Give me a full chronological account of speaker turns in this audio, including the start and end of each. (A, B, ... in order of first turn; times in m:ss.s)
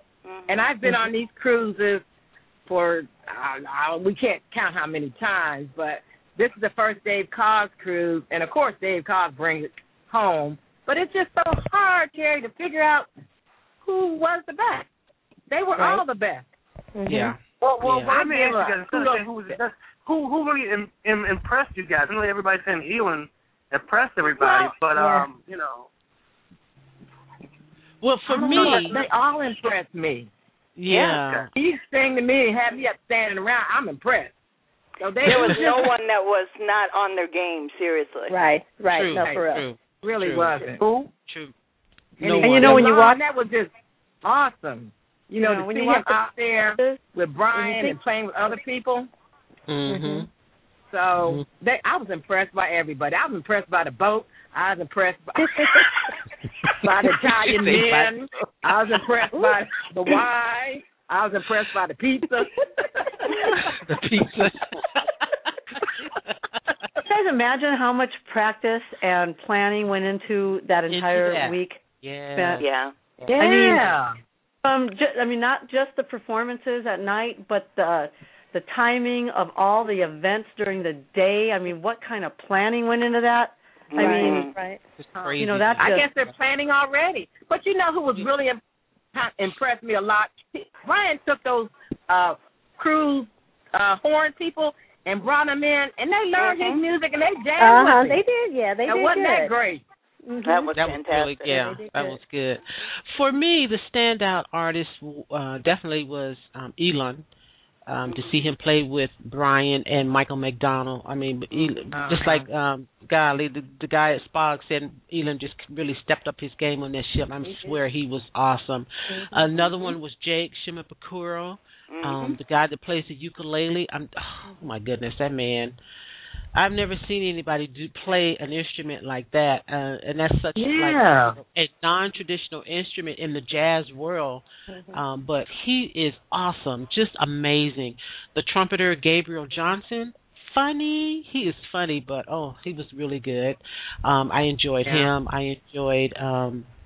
0:00.2-0:00.7 A
0:00.5-0:02.0 B
0:02.7-0:13.1 B
0:13.8-0:14.9 B
0:15.5-0:16.4 B
0:15.8-0:16.0 C
0:16.9-0:17.3 C
0:17.1-0:18.1 D
0:17.6-0:19.5 B
0:18.0-0:25.9 E
0:24.2-0:24.8 B
0:24.9-0:25.3 C
0:28.0-0:29.0 D
0:28.3-0:30.3 B
0:30.8-0:31.5 D
0:30.9-0:31.2 A
0:31.5-0:34.3 B
0:35.0-0:35.9 B
0:35.2-0:38.3 A
0:38.3-0:39.6 C
0:38.9-0:40.5 D
0:39.2-0:39.4 B
0:40.0-0:41.0 B
0:41.3-0:41.5 D
0:42.2-0:43.7 B
0:42.2-0:42.9 D
0:42.4-0:43.2 F
0:44.2-0:49.1 B
0:45.4-0:46.2 F
0:47.5-0:48.0 C
0:49.7-0:50.3 D
0:49.9-0:50.2 C
0:50.9-0:55.8 B
0:55.4-0:55.8 C
0:56.8-1:02.5 B
0:57.1-0:58.4 D
1:03.3-1:03.5 C
1:03.8-1:06.6 D
1:07.0-1:12.6 F
1:10.9-1:12.6 D
1:12.6-1:12.9 A
1:13.3-1:14.2 B
1:13.3-1:14.0 F
1:14.6-1:24.5 F
1:23.9-1:24.5 A
1:24.0-1:24.8 C
1:25.0-1:26.0 D
1:25.2-1:28.6 B
1:25.4-1:26.1 F
1:29.1-1:38.2 B
1:36.4-1:36.8 A
1:37.6-1:39.5 C
1:38.9-1:39.8 B
1:40.2-1:40.7 C
1:40.4-1:41.6 A
1:40.7-1:47.2 D
1:41.5-1:42.2 C
1:47.9-2:05.8 D
1:48.1-1:48.5 A
1:51.9-1:52.4 B
1:57.5-1:57.7 C
1:59.1-2:00.0 C
2:01.9-2:02.2 A
2:06.5-2:26.7 D
2:10.6-2:11.4 B
2:14.7-2:15.0 C